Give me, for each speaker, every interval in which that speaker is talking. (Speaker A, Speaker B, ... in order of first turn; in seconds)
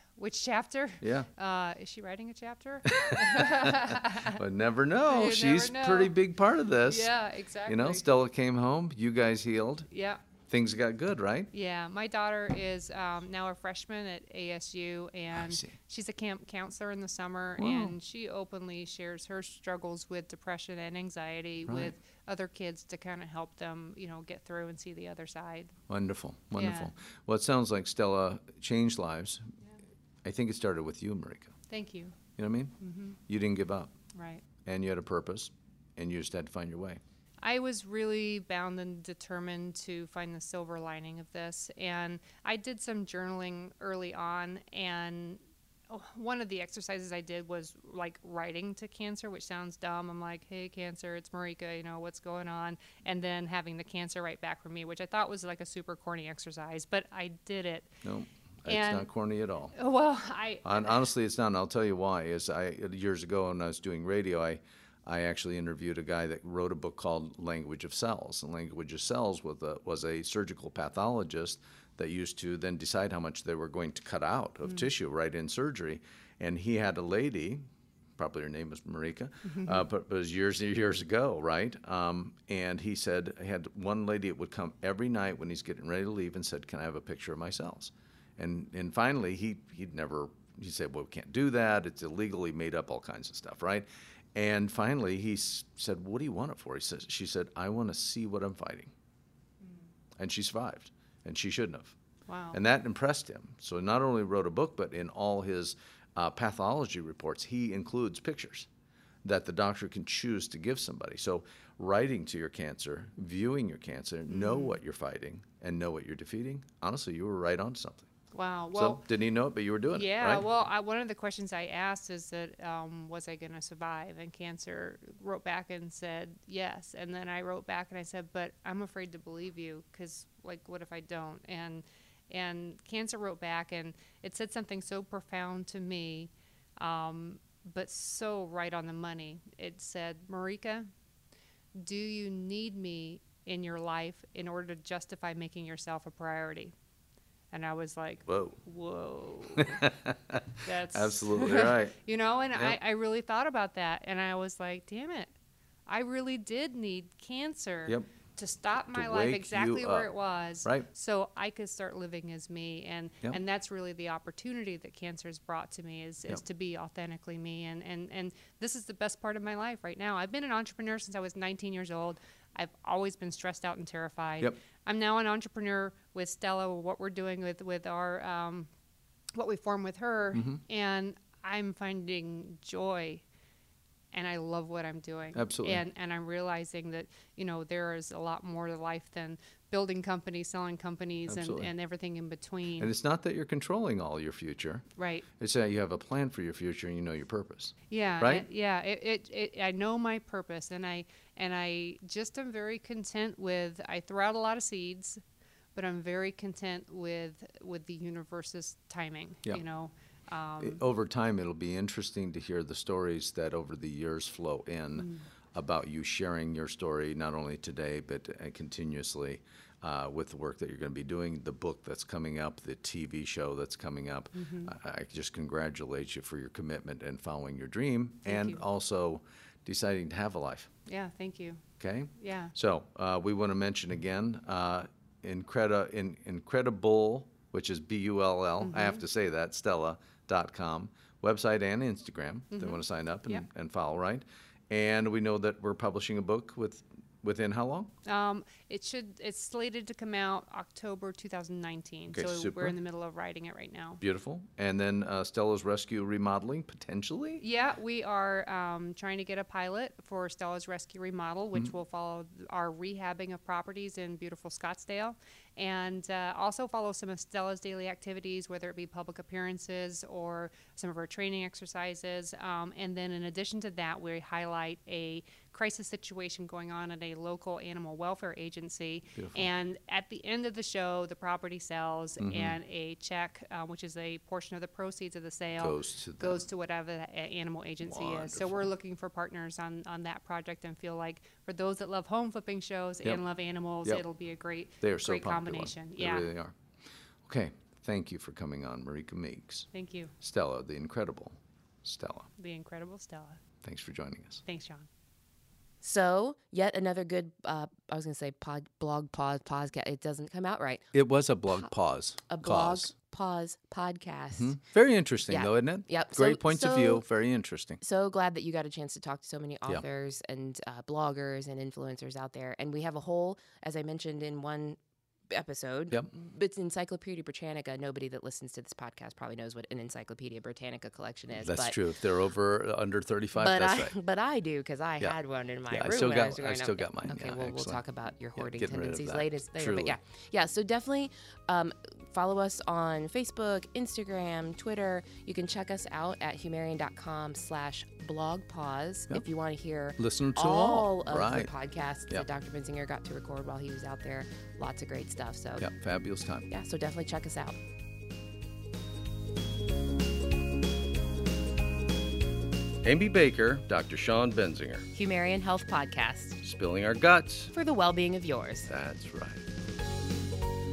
Speaker A: 0.2-4.4, 5.1-6.1, 6.9-8.1, 9.9-10.2, 11.5-25.7, 26.6-26.9, 31.7-32.2, 32.8-33.2, 34.1-34.4, 37.4-57.9, 58.7-59.1, 59.8-61.0, 79.5-79.8, 102.3-102.6, 114.3-114.8, 118.3-119.0, 119.9-140.9, 141.8-146.7, 147.5-149.8, 150.6-155.3, 155.9-178.7, 179.3-183.2, 184.1-192.9, 195.0-195.3, 197.9-205.2, 205.8-210.8, 224.3-224.7, 228.2-228.6, 230.9-231.6, 232.2-232.5, 238.6-239.0, 242.5-243.4, 248.1-254.0, 257.4-296.3, 299.7-300.1, 302.4-303.4, 304.4-304.9
Speaker B: 1.0-1.3, 2.9-7.1, 7.7-9.9, 10.5-11.5, 15.3-15.7, 17.6-17.9, 21.7-21.9, 25.9-29.5, 30.2-31.6, 32.4-32.8, 33.3-33.9, 34.6-37.0, 58.0-59.8, 60.6-77.6, 78.2-98.9, 100.2-102.0, 102.5-108.7, 109.2-118.1, 118.7-120.5, 148.3-148.6, 149.6-151.9, 158.9-160.1, 180.3-180.6, 185.3-185.8, 191.3-191.7, 192.8-194.9, 195.4-198.5, 210.6-230.7, 231.8-247.9, 252.1-252.8, 254.0-257.4, 279.1-279.5, 282.2-282.6, 285.6-286.4, 287.8-288.7, 294.8-296.5, 297.3-299.7, 300.2-302.3, 303.6-304.4, 310.9-312.9, 314.4-317.8, 331.4-333.9, 335.7-337.8, 338.4-340.0, 350.0-351.5, 355.6-356.5, 362.8-364.9, 366.4-367.5, 368.7-369.4
Speaker C: 305.8-310.9, 312.3-314.6, 315.3-317.0, 317.8-324.8, 325.3-331.8, 333.4-355.7, 356.5-357.6, 364.9-366.4, 367.5-368.7